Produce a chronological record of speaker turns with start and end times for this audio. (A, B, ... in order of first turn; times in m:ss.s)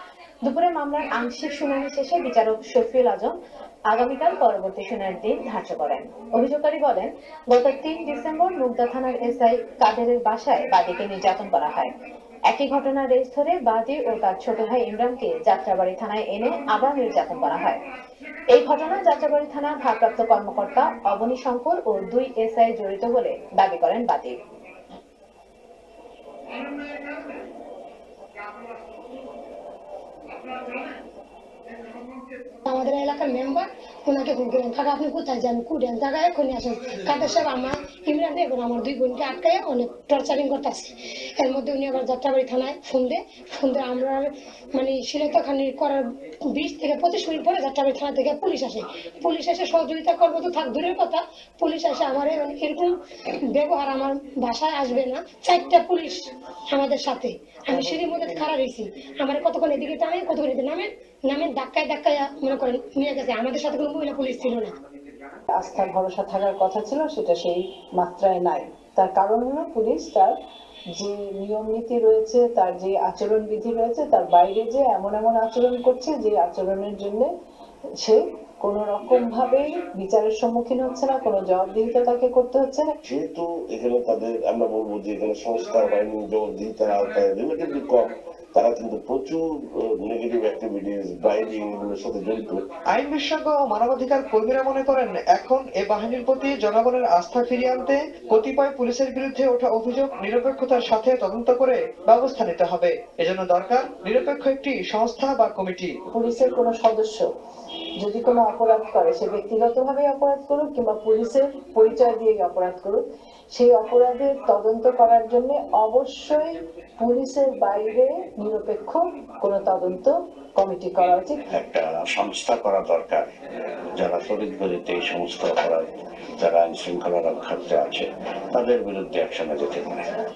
0:00.4-0:03.4 A
0:03.9-0:11.9 A
0:12.5-0:17.8 A
0:18.5-0:24.4 A
0:32.7-0:53.0 B
0:53.5-0:56.1 B
0:56.7-1:04.7 B
1:05.5-1:10.3 C
1:11.0-1:17.3 C
1:18.0-1:22.9 C
1:23.0-1:32.6 D
1:32.9-1:46.0 E
1:46.1-1:47.3 C
1:48.0-2:01.4 C
2:01.5-2:03.3 F
2:03.9-2:10.1 F